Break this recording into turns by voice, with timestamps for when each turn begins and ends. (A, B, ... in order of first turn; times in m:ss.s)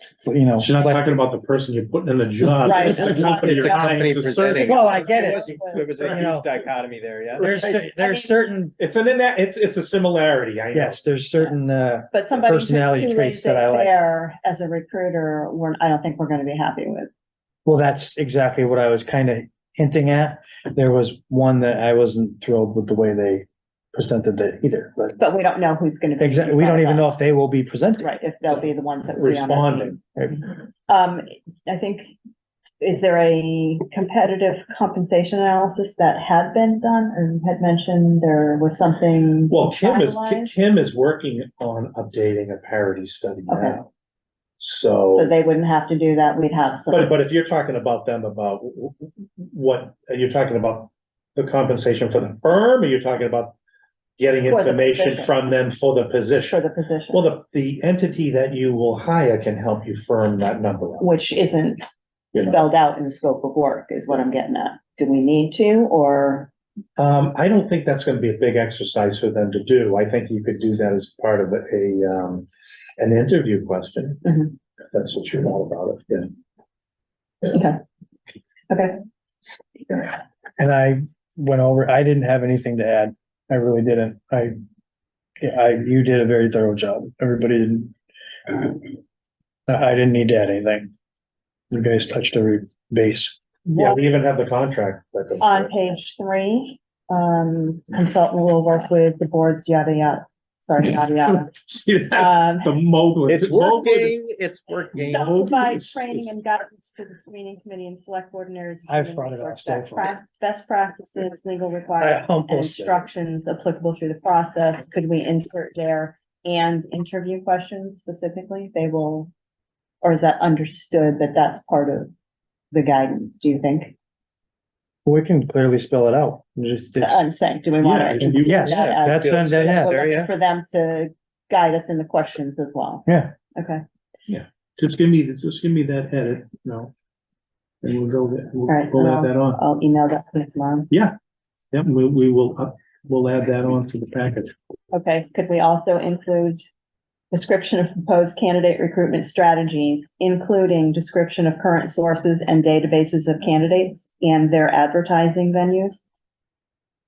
0:00.2-0:01.1 A
0:00.6-0:06.5 B
0:02.6-0:03.9 C
0:02.8-0:07.6 D
0:04.6-0:06.5 A
0:04.6-0:06.0 C
0:07.4-0:08.7 A
0:08.8-0:11.0 B
0:10.7-0:13.9 A
0:12.1-0:17.1 C
0:17.6-0:25.2 A
0:25.2-0:27.2 C
0:26.2-0:28.1 A
0:28.0-0:30.0 C
0:29.2-0:30.0 B
0:30.9-0:32.1 C
0:32.8-0:40.6 C
0:39.5-0:43.9 B
0:43.5-0:43.8 C
0:44.6-0:45.3 B
0:45.1-0:47.1 C
0:46.9-0:53.5 B
0:54.2-1:01.1 B
0:54.5-0:55.3 C
0:56.5-0:57.3 C
1:01.0-1:01.8 C
1:02.3-1:06.5 C
1:07.0-1:12.5 B
1:13.0-1:14.3 B
1:14.2-1:14.5 C
1:14.9-1:16.3 B
1:17.5-1:17.8 C
1:18.7-1:19.0 C
1:20.6-1:24.5 A
1:25.4-1:27.9 A
1:28.5-1:28.8 A
1:29.7-1:30.9 A
1:31.7-1:33.4 A
1:33.6-1:35.7 B
1:33.7-1:34.0 C
1:35.4-1:41.5 C
1:40.9-1:44.2 B
1:42.1-1:42.7 C
1:43.3-1:45.4 D
1:45.0-1:46.3 B
1:45.0-1:59.3 C
1:48.9-1:50.1 A
1:52.0-1:53.0 A
2:00.0-2:02.1 C
2:02.7-2:03.9 C
2:05.0-2:07.2 A
2:07.0-2:13.8 C
2:07.8-2:08.7 B
2:08.2-2:10.0 A
2:08.5-2:10.3 D
2:13.0-2:13.3 A
2:14.3-2:16.9 B
2:17.8-2:19.6 B
2:18.7-2:20.9 C
2:21.7-2:24.5 B
2:24.9-2:26.6 C
2:27.3-2:36.0 C